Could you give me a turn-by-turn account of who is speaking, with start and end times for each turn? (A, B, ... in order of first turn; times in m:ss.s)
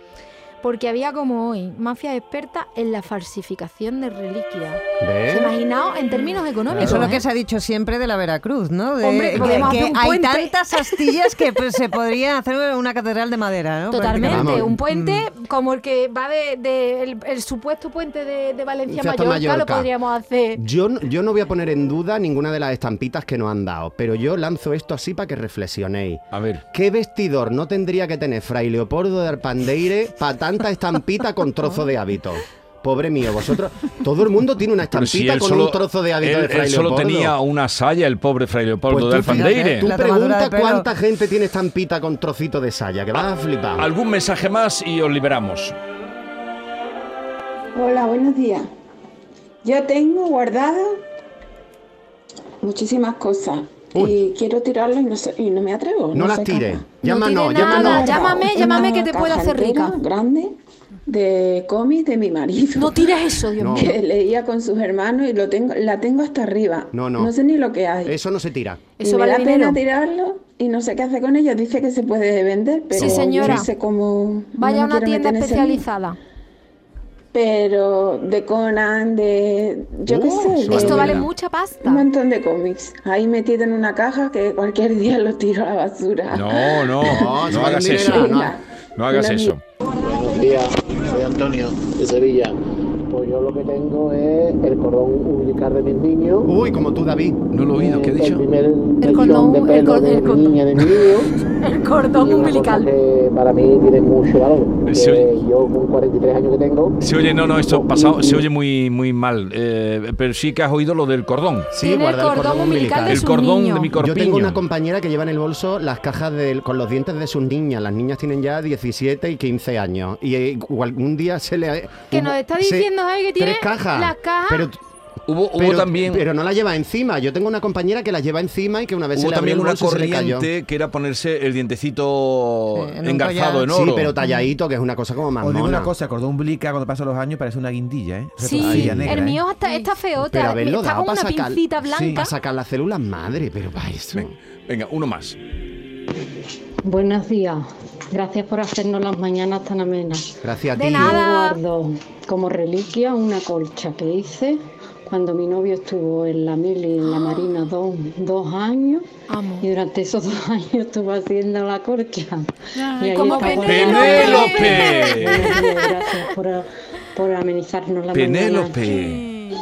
0:00.6-0:07.2 A
0:05.0-0:05.5 B
0:06.7-0:15.2 C
0:09.0-0:11.6 A
0:09.4-0:09.7 B
0:13.9-0:20.6 A
0:14.2-0:14.8 B
0:18.9-0:19.9 B
0:20.6-0:37.4 B
0:26.3-0:26.6 D
0:34.9-0:39.9 D
0:38.9-0:43.9 B
0:39.2-0:40.9 C
0:43.8-0:45.7 D
0:47.7-0:48.7 E
0:49.6-0:51.0 E
0:52.6-0:56.9 E
0:56.1-0:58.4 B
0:57.0-1:00.0 A
0:57.5-1:08.2 E
1:02.7-1:04.0 A
1:03.6-1:04.0 B
1:06.9-1:07.3 B
1:08.0-1:08.8 B
1:09.0-1:09.8 A
1:09.0-1:15.8 E
1:12.9-1:13.7 A
1:13.0-1:13.7 B
1:14.5-1:16.2 A
1:17.3-1:21.2 E
1:20.1-1:21.3 B
1:20.6-1:22.0 A
1:21.8-1:27.0 E
1:26.3-1:28.4 D
1:27.0-1:28.6 B
1:28.0-1:29.6 E
1:29.0-1:29.6 D
1:30.0-1:32.5 F
1:33.1-1:36.5 F
1:36.4-1:37.4 B
1:37.5-1:38.4 D
1:37.7-1:41.3 F
1:39.0-1:40.8 A
1:41.6-1:42.9 A
1:42.2-1:47.0 F
1:44.8-1:45.2 D
1:47.0-1:51.7 D
1:47.6-1:48.4 F
1:51.7-1:53.2 B
1:51.8-1:53.9 A
1:53.0-1:54.6 D
1:54.0-2:04.8 B
2:02.1-2:04.7 A
2:05.3-2:06.2 D
2:05.5-2:10.5 B
2:09.1-2:14.1 D
2:12.7-2:13.8 C
2:13.7-2:15.9 B
2:15.4-2:19.4 G
2:18.4-2:22.3 A
2:18.6-2:19.2 B
2:20.2-2:24.3 B
2:21.9-2:22.2 G
2:24.1-2:25.4 D
2:26.8-2:30.4 H
2:30.4-2:31.2 B
2:30.7-2:31.6 A
2:31.0-2:39.0 H
2:39.3-2:39.6 A
2:39.6-2:48.9 H
2:43.0-2:45.1 A
2:43.5-2:45.6 D
2:48.1-2:49.2 D